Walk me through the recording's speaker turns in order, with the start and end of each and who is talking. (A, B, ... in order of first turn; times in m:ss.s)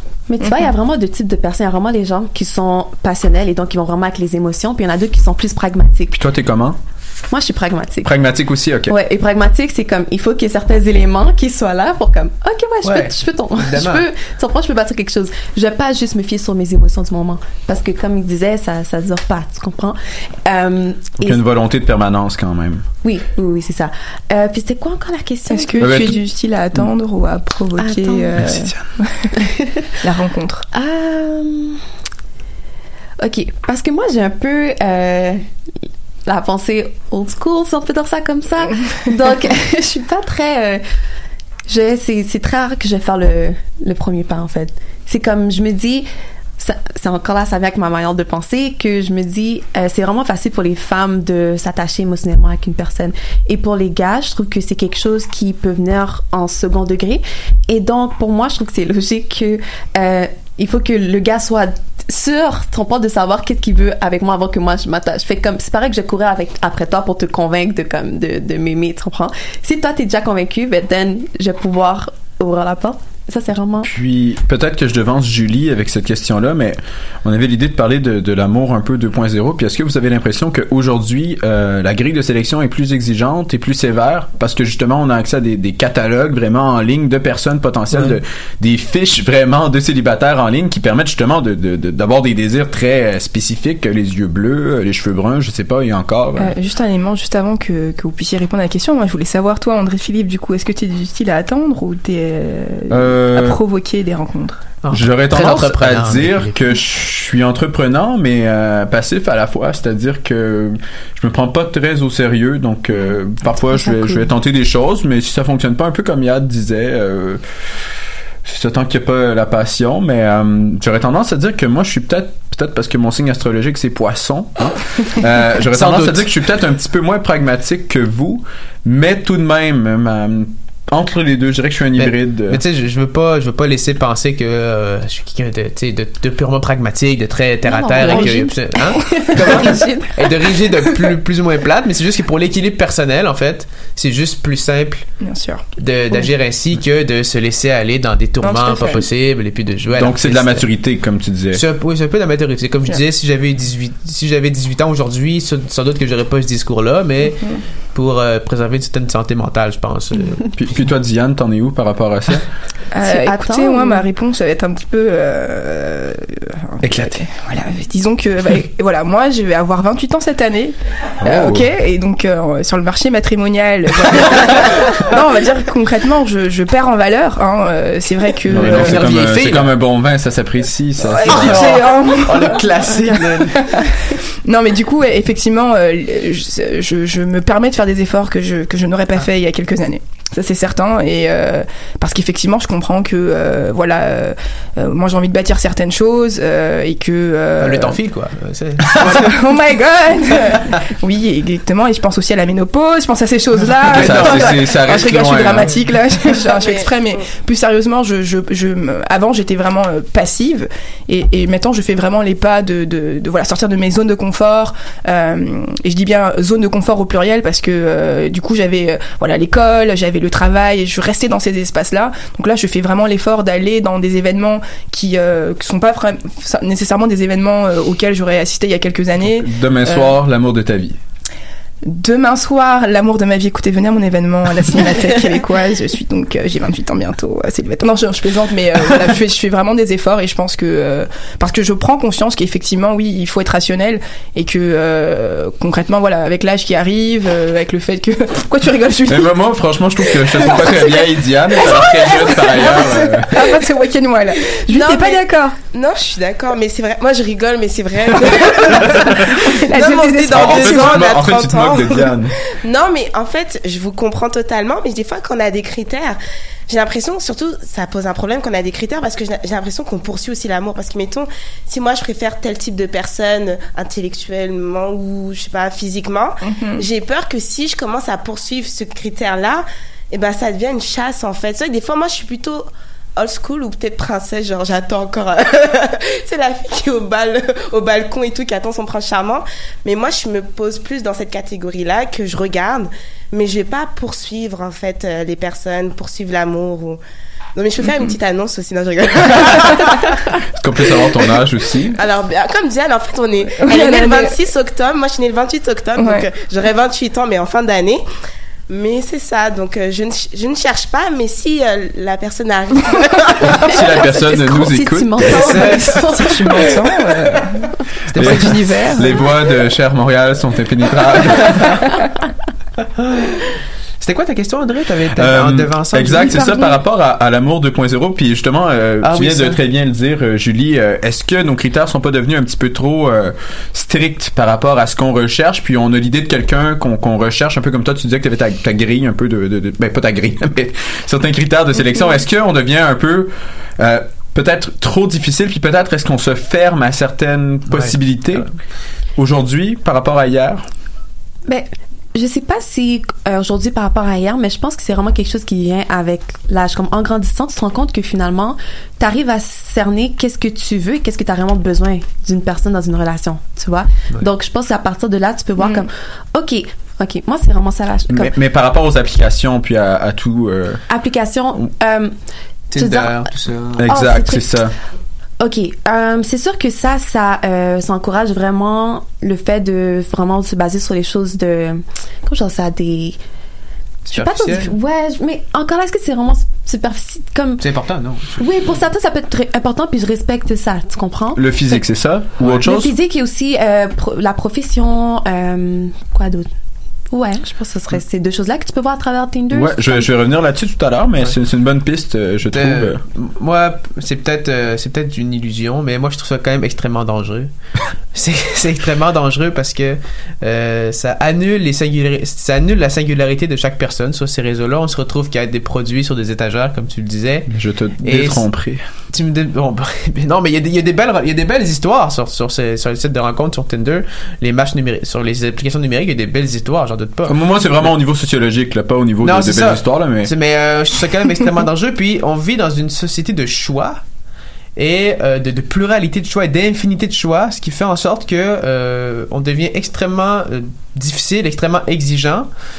0:00.3-0:06.1 A
0:06.1-0:06.8 B
0:07.3-0:08.1 A
0:08.0-0:09.0 B
0:08.9-0:21.4 A
0:12.8-0:14.0 C
0:21.2-0:22.8 B
0:23.0-0:26.2 A
0:25.5-0:29.3 D
0:25.8-0:26.2 B
0:27.8-0:28.5 A
0:28.4-0:28.8 B
0:29.4-0:29.9 A
0:30.0-0:30.6 D
0:30.7-0:31.8 A
0:33.2-0:35.4 A
0:36.2-0:40.8 A
0:41.7-0:46.1 A
0:46.6-1:13.9 A
1:13.8-1:36.5 B
1:36.4-1:44.7 D
1:42.9-1:43.6 B
1:44.8-1:46.6 C
1:44.9-1:57.4 B
1:53.7-1:54.3 A
1:58.4-2:12.6 B
2:05.7-2:06.3 C
2:12.0-2:25.1 C
2:17.6-2:20.3 A
2:18.0-2:19.9 D
2:25.2-2:25.6 D
2:25.8-2:30.7 C
2:28.4-2:29.0 D
2:30.0-2:31.6 B
2:31.5-2:40.4 C
2:40.5-2:42.4 B
2:42.9-2:59.2 D
2:43.0-2:44.0 A
2:46.8-2:47.2 B
2:51.2-2:51.7 B
2:58.5-3:01.9 B
2:58.5-2:59.7 C
3:01.0-3:03.9 D
3:01.2-3:03.9 C
3:04.5-3:18.0 D
3:17.6-3:19.4 C
3:18.9-3:50.1 D
3:23.9-3:24.7 C
3:23.9-3:25.8 B
3:26.6-3:27.3 E
3:49.2-3:51.0 B
3:51.8-4:09.3 D
4:09.1-4:13.4 B
4:10.1-4:15.6 D
4:14.7-4:26.2 E
4:18.4-4:21.0 D
4:20.3-4:22.3 B
4:26.7-4:42.6 E
4:36.4-4:36.8 D
4:43.2-4:57.0 E
4:57.6-5:00.3 E
5:00.6-5:02.0 B
5:01.9-5:08.0 E
5:03.6-5:04.3 D
5:06.0-5:06.2 D
5:08.7-5:13.8 E
5:13.4-5:15.6 B
5:13.7-5:16.7 A
5:15.3-5:16.0 C
5:15.6-5:19.3 D
5:18.1-5:18.5 C
5:18.1-5:21.9 B
5:21.5-5:21.9 C
5:23.0-5:23.4 C
5:24.0-5:26.4 C
5:25.2-5:48.4 B
5:29.0-5:29.6 C
5:47.7-5:48.5 C
5:49.2-5:50.6 B
5:51.5-6:08.3 A
6:08.1-6:10.8 B
6:10.9-6:12.1 A
6:12.7-6:13.9 C
6:12.8-6:13.3 A
6:13.8-6:14.7 B
6:13.9-6:14.6 A
6:15.4-6:23.2 A
6:24.1-6:24.7 C
6:24.1-6:27.6 A
6:27.6-6:28.7 C
6:28.4-6:31.8 A
6:31.4-6:32.9 B
6:32.6-6:36.5 A
6:37.1-6:40.1 A
6:39.5-6:43.0 B
6:42.5-6:47.5 C
6:48.1-6:57.5 C
6:57.5-6:58.8 B
6:58.0-6:58.4 C
6:59.1-7:07.9 C
7:07.3-7:10.3 B
7:09.2-7:14.0 C
7:14.8-7:22.5 C